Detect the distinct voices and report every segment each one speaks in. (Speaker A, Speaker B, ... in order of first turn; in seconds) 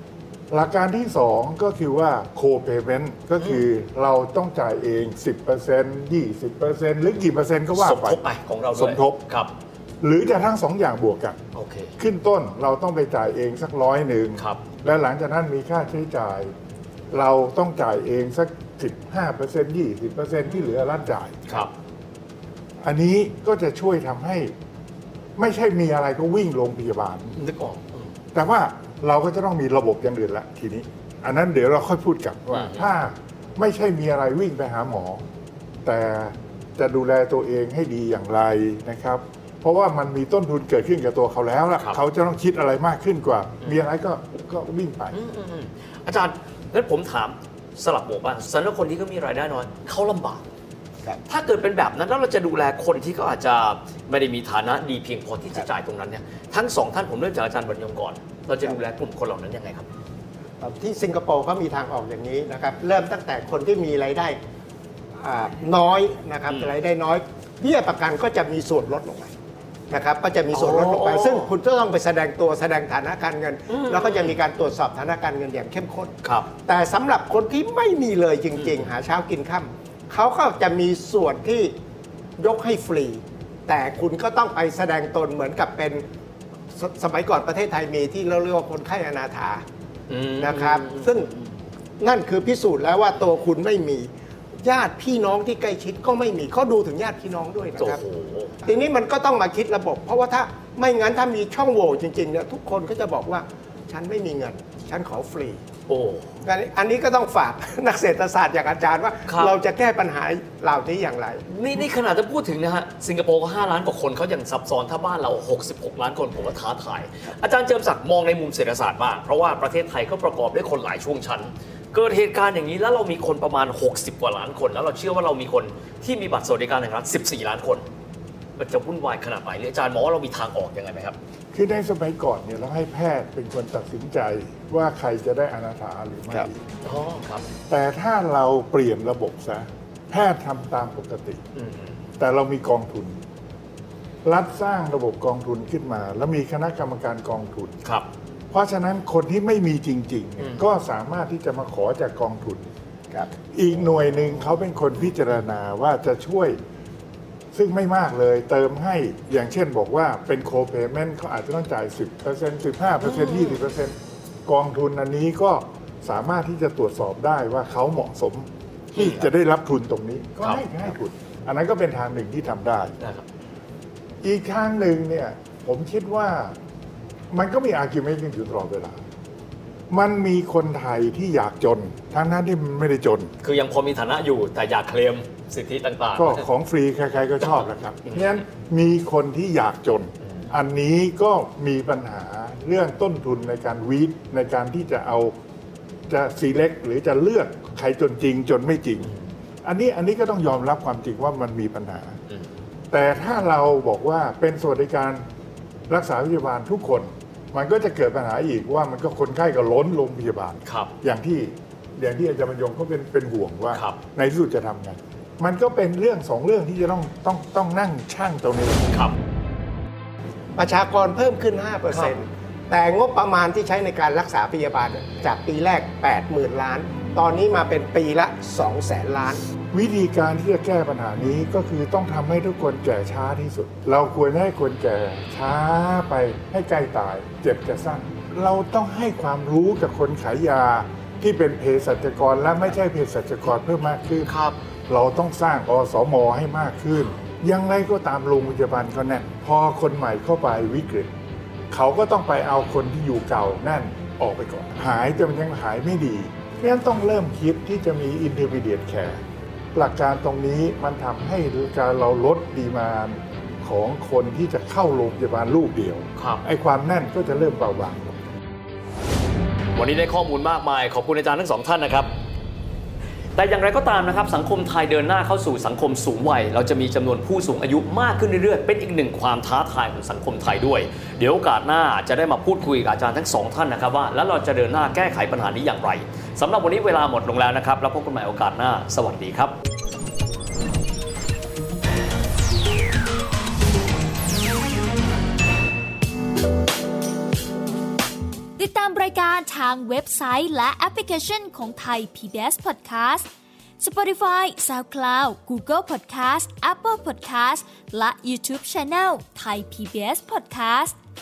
Speaker A: 0.5-8.2, 8.8-9.2, 10.0-11.4, 12.0-16.5, 17.1-21.6, 22.8-24.5, 25.4-27.4, 28.3-35.2, 35.9-45.2, 131.5-136.6, 137.7-141.4, 142.2-143.2, 144.2-147.8, 148.5-152.7, 153.5-156.6, 157.5-163.9, 164.5-173.0, 174.2-176.6, 177.3-179.0, 179.9-183.3, 186.2-195.3, 196.1-202.2, 202.9-205.2, 205.9-218.8, 229.7-244.3, 244.9-251.1, 251.7-259.2, 259.7-268.2
Speaker B: 7.8-9.5, 11.5-11.9, 14.4-14.6, 27.4-28.1, 32.5-32.9, 45.1-50.4, 51.3-59.9, 70.5-71.5, 73.7-74.4, 76.2-76.5, 90.1-91.5, 97.8-98.5, 105.9-106.3, 109.3-109.6, 111.5-127.8, 128.6-131.2, 136.8-137.5, 141.6-141.9, 150.4-150.7, 183.4-186.4, 210.7-210.9, 213.7-214.0, 244.3-244.6, 266.2-266.4, 269.7-272.1, 273.4-289.5
Speaker C: 60.6-64.4, 65.2-69.3, 69.9-81.7, 82.4-86.0, 86.8-89.6, 90.4-91.3, 92.0-94.1, 94.6-98.0, 98.6-105.6, 106.4-111.4, 220.6-229.4
Speaker D: 298.6-303.2, 303.8-310.9